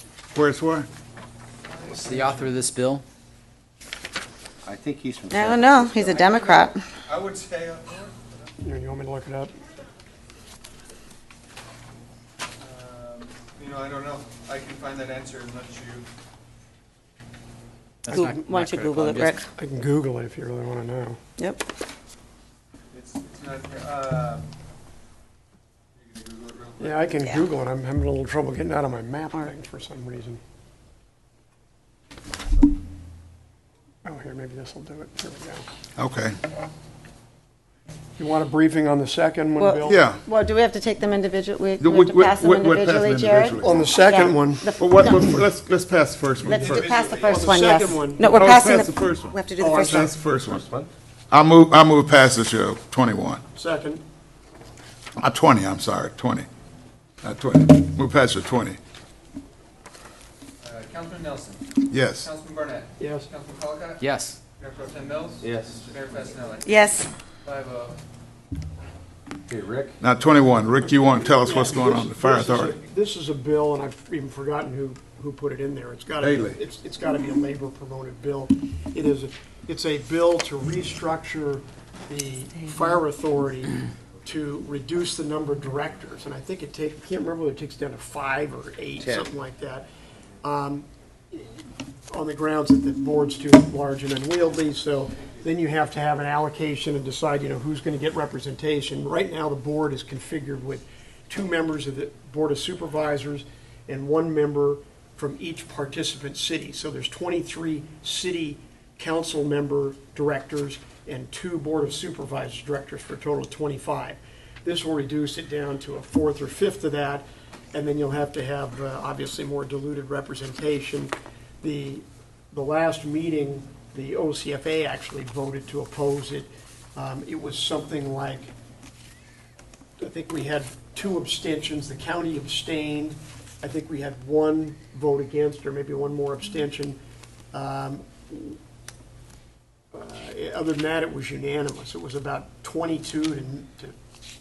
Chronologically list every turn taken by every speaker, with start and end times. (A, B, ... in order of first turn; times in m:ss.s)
0:00.4-0:00.9 A
0:01.6-0:02.5 B
0:01.9-0:03.0 C
0:04.6-0:06.1 D
0:05.3-0:06.8 E
0:06.0-0:08.5 B
0:08.6-0:09.5 F
0:12.6-0:16.1 B
0:18.0-0:19.4 C
0:18.1-0:18.4 F
0:18.1-0:19.5 E
0:19.5-0:21.2 F
0:21.4-0:21.6 E
0:22.9-0:24.5 B
0:26.0-0:27.0 B
0:26.8-0:30.4 F
0:34.0-0:35.7 F
0:36.0-0:36.4 A
0:38.2-0:40.0 F
0:39.6-0:45.4 E
0:39.8-0:40.2 A
0:41.8-0:43.9 A
0:43.6-0:44.8 F
0:44.8-0:46.9 A
0:46.5-0:50.2 E
0:46.5-0:48.5 F
0:48.3-0:50.6 A
0:49.6-0:50.1 F
0:50.4-0:50.9 D
0:51.3-0:53.4 A
0:53.5-0:54.0 F
0:55.2-0:56.5 A
0:57.2-0:58.8 A
1:00.6-1:01.6 B
1:01.9-1:02.3 A
1:02.2-1:04.0 B
1:03.0-1:03.3 F
1:04.0-1:04.4 C
1:04.6-1:06.8 B
1:05.4-1:05.8 D
1:06.6-1:07.1 E
1:07.4-1:08.0 B
1:09.5-1:10.0 D
1:10.0-1:12.8 A
1:11.2-1:29.8 F
1:16.2-1:16.6 A
1:29.0-1:29.3 D
1:30.4-2:08.5 F
2:10.0-2:17.0 F
2:17.5-2:18.6 F
2:19.9-2:24.0 F